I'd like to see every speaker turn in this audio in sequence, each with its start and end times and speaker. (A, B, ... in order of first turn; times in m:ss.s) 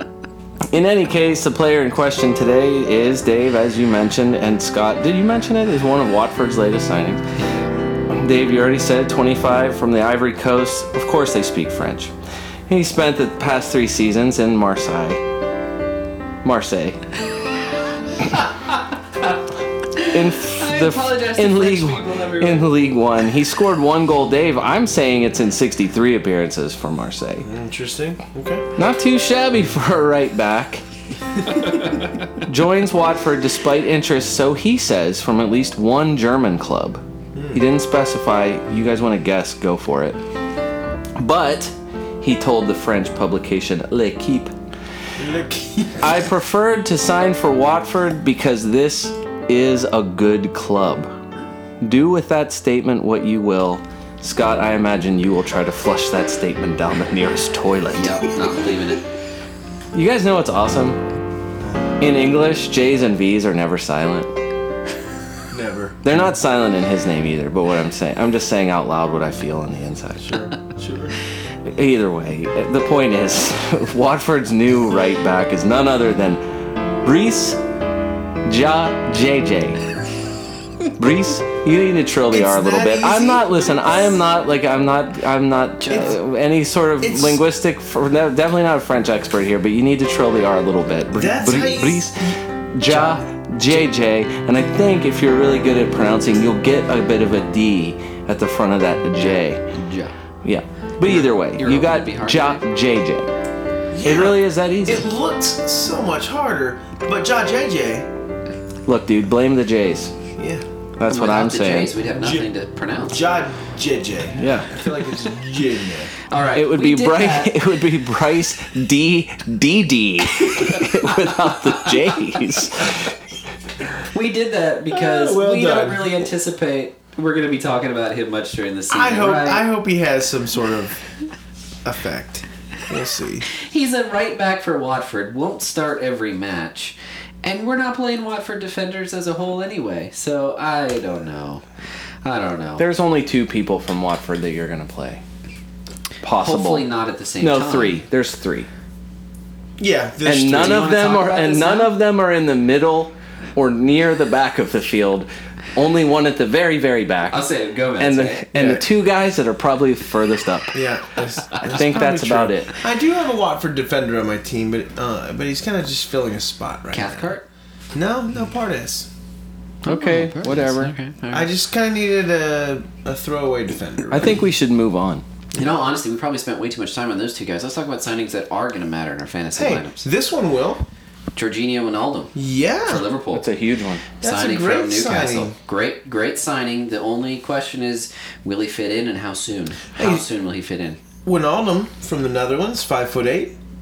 0:00.7-0:07.2 A
0:08.1-0:12.1 A
0:12.7-0:15.2 A
0:16.4-0:17.0 A
0:20.0-0:22.8 B
0:20.0-0:27.5 A
0:27.4-0:28.7 C
0:28.8-0:30.8 A
0:31.5-0:37.0 A
0:37.3-0:37.6 C
0:37.5-0:40.2 A
0:41.2-0:44.5 A
0:45.2-0:46.3 C
0:46.0-0:51.1 A
0:51.8-0:58.2 A
0:57.9-0:59.1 B
0:59.9-1:01.0 A
1:02.0-1:04.3 A
1:05.5-1:06.1 C
1:06.0-1:10.4 A
1:10.2-1:11.2 C
1:11.6-1:16.4 A
1:17.0-1:17.6 A
1:18.5-1:19.8 A
1:21.0-1:39.6 A
1:22.3-1:24.2 C
1:25.8-1:26.2 B
1:25.9-1:26.2 C
1:27.0-1:27.4 C
1:31.1-1:32.4 C
1:32.9-1:33.9 C
1:39.3-1:40.1 B
1:40.4-1:43.3 A
1:41.1-1:42.6 B
1:43.9-1:48.1 C
1:44.0-1:45.1 A
1:48.9-1:50.1 A
1:50.4-1:50.6 C
1:51.0-1:51.9 A
1:51.1-1:53.2 B
1:52.2-1:52.5 C
1:53.1-1:56.1 C
1:54.4-1:54.7 A
1:56.3-1:57.6 B
1:56.5-2:03.2 A
2:00.5-2:02.0 B
2:04.1-2:09.7 B
2:04.9-2:06.2 C
2:08.9-2:11.0 C
2:11.8-2:13.5 C
2:13.5-2:21.6 B
2:22.2-2:22.8 B
2:22.8-2:25.2 A
2:26.2-2:26.9 A
2:26.4-2:28.0 B
2:27.4-2:28.7 A
2:29.8-2:30.9 C
2:30.2-2:37.5 A
2:30.5-2:31.9 B
2:37.3-2:38.5 B
2:38.0-2:40.8 A
2:38.5-2:38.8 C
2:40.7-2:47.3 C
2:41.6-2:42.8 A
2:46.9-2:47.5 B
2:47.9-2:49.1 C
2:49.8-2:51.5 B
2:49.9-2:50.9 A
2:51.3-2:54.4 C
2:54.1-2:55.2 A
2:55.5-2:55.8 C
2:55.6-3:00.1 B
2:59.5-3:00.9 C
3:01.4-3:02.3 B
3:02.4-3:03.0 C
3:02.9-3:03.5 B
3:03.3-3:04.1 A
3:04.2-3:05.5 C
3:04.2-3:11.0 B
3:10.0-3:10.2 C
3:11.2-3:13.6 C